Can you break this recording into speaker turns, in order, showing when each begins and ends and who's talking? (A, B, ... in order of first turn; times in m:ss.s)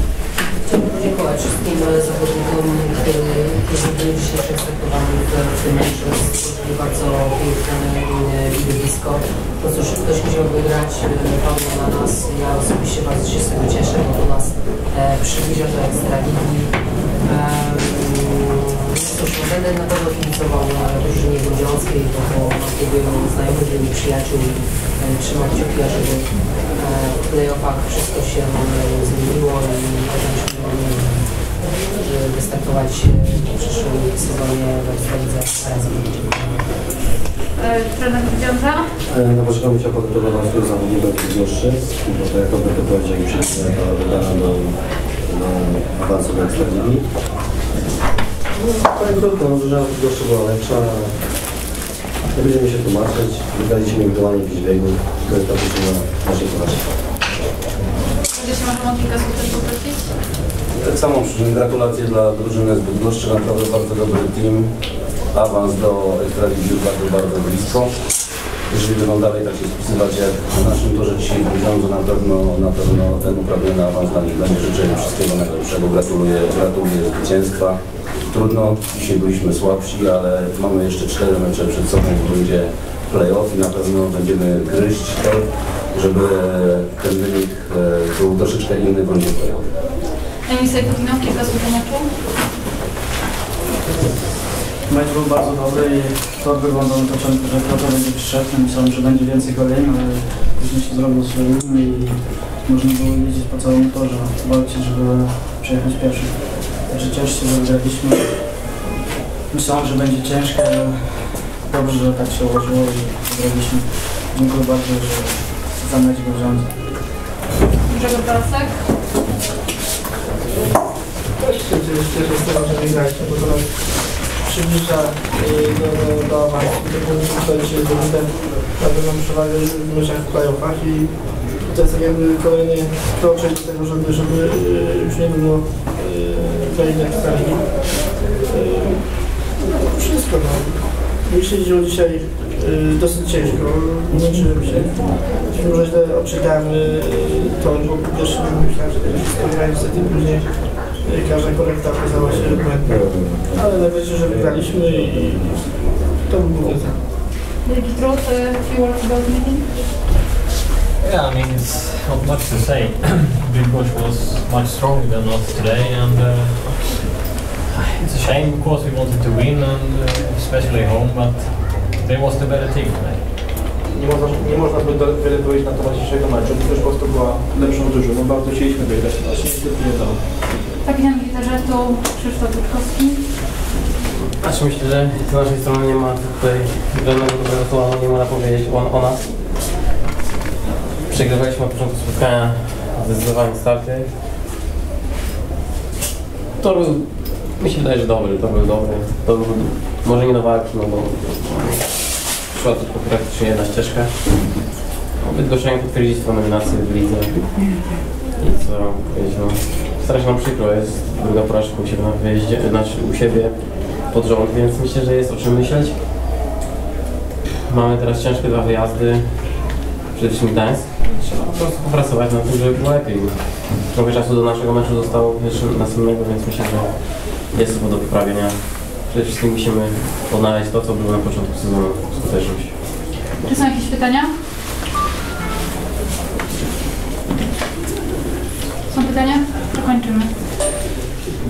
0:00.6-0:36.7 A
0:37.5-0:38.9 B
0:39.1-0:47.1 C
0:48.5-0:51.2 C
0:52.3-0:56.8 C
0:58.3-1:00.1 B
1:00.7-1:04.7 D
1:05.3-1:07.9 D
1:08.7-1:17.8 D
1:18.3-1:29.7 D
1:30.4-1:32.2 B
1:33.9-1:34.2 E
1:34.8-1:48.7 E
1:49.5-1:56.8 E
1:57.8-1:58.8 B
2:01.4-2:37.0 F
2:32.4-2:35.0 C
2:37.6-2:39.8 B
2:41.0-2:47.1 G
2:47.7-2:53.3 G
2:53.9-3:00.2 H
3:00.8-3:03.3 B
3:04.2-3:09.7 I
3:11.1-3:14.2 I
3:16.6-3:27.7 I
3:28.4-3:36.0 I
3:37.6-3:52.8 I
3:53.4-3:54.3 B
3:58.9-4:00.4 B